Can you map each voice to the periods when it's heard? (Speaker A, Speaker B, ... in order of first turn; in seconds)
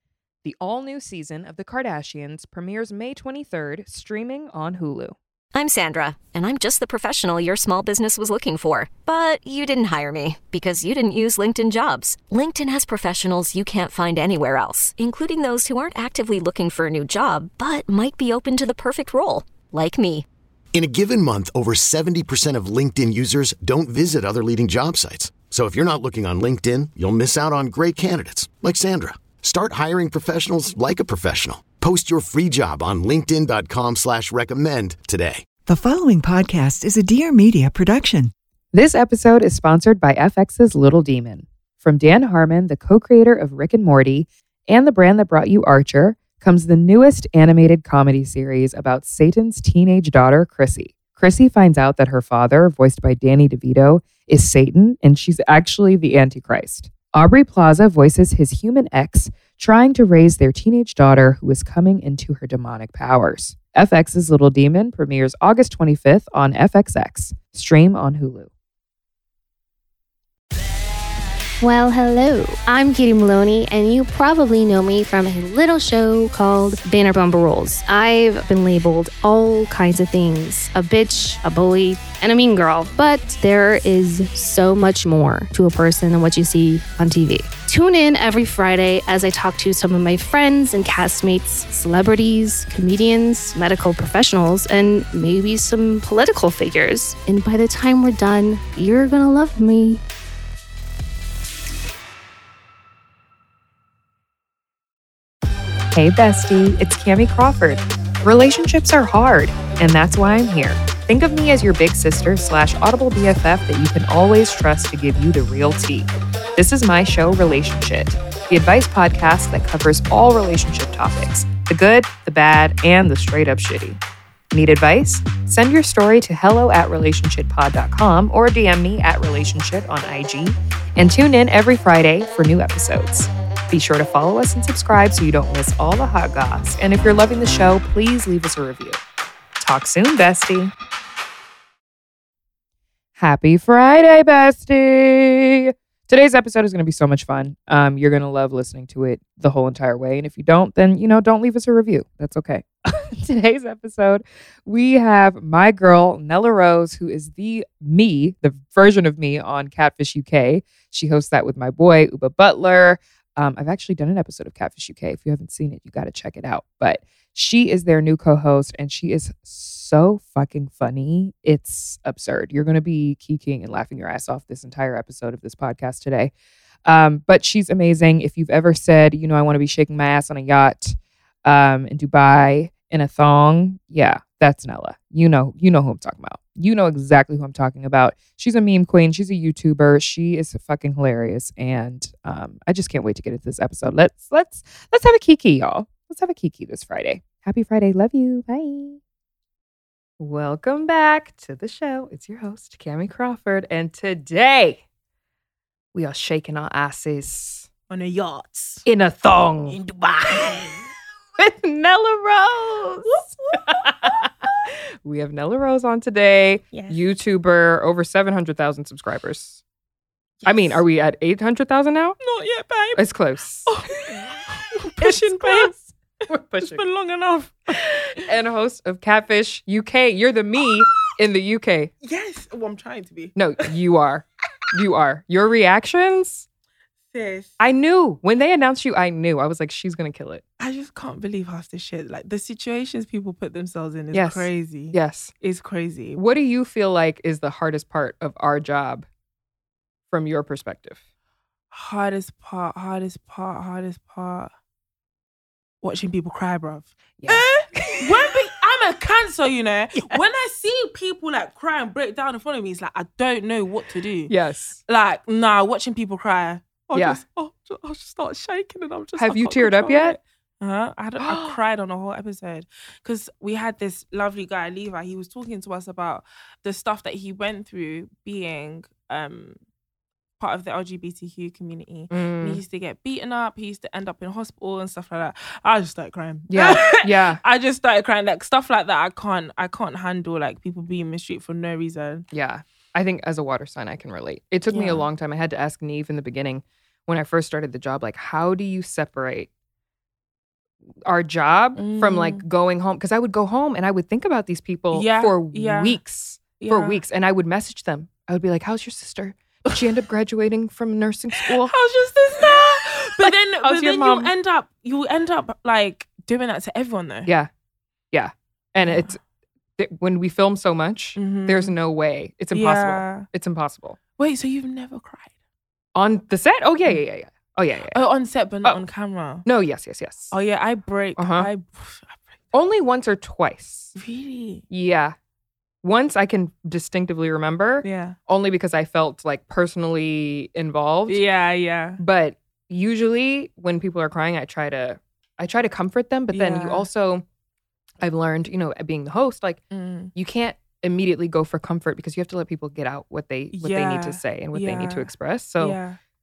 Speaker A: 0.4-5.1, 38.7-68.5, 105.9-124.0, 124.5-139.0, 139.6-140.7, 143.2-176.3, 176.8-199.0, 200.2-204.8, 205.9-207.7, 208.8-209.8, 210.3-210.7, 211.4-214.3, 215.0-219.6, 220.4-222.2, 222.9-223.7, 225.0-225.8, 226.3-226.8, 228.2-231.9, 233.3-236.5, 237.6-240.4, 244.1-245.3, 246.1-249.1, 250.1-251.0, 257.2-258.1, 264.3-264.8, 266.9-267.2, 269.2-270.2, 271.2-271.6, 282.1-282.6, 286.5-287.4, 292.3-299.5, 301.1-311.7, 313.2-314.3, 318.1-319.2, 319.8-324.0, 325.9-328.0, 329.4-330.3, 331.2-331.5, 332.5-333.9, 334.7-335.1, 335.8-341.2, 342.0-347.2, 348.0-349.6, 350.1-355.8
Speaker B: 5.5-20.2
Speaker C: 20.7-35.5
Speaker D: 35.6-38.3
Speaker E: 71.6-100.0
Speaker F: 207.9-208.8, 209.7-210.8, 213.0-214.5, 216.7-217.0, 220.4-220.8, 222.2-223.0, 223.7-225.9, 226.6-228.2, 232.0-233.3, 237.1-237.6, 240.6-246.2, 251.7-254.5, 255.8-264.3, 264.9-279.6, 280.4-292.2, 294.7-295.1, 301.8-302.4, 304.9-306.0, 306.6-307.0, 311.4-317.3, 321.1-321.7, 322.5-323.3, 324.2-325.3, 327.9-329.4, 330.3-332.4, 333.9-334.6, 337.8-338.2, 341.1-342.0, 346.3-346.9, 349.7-350.1, 353.5-356.0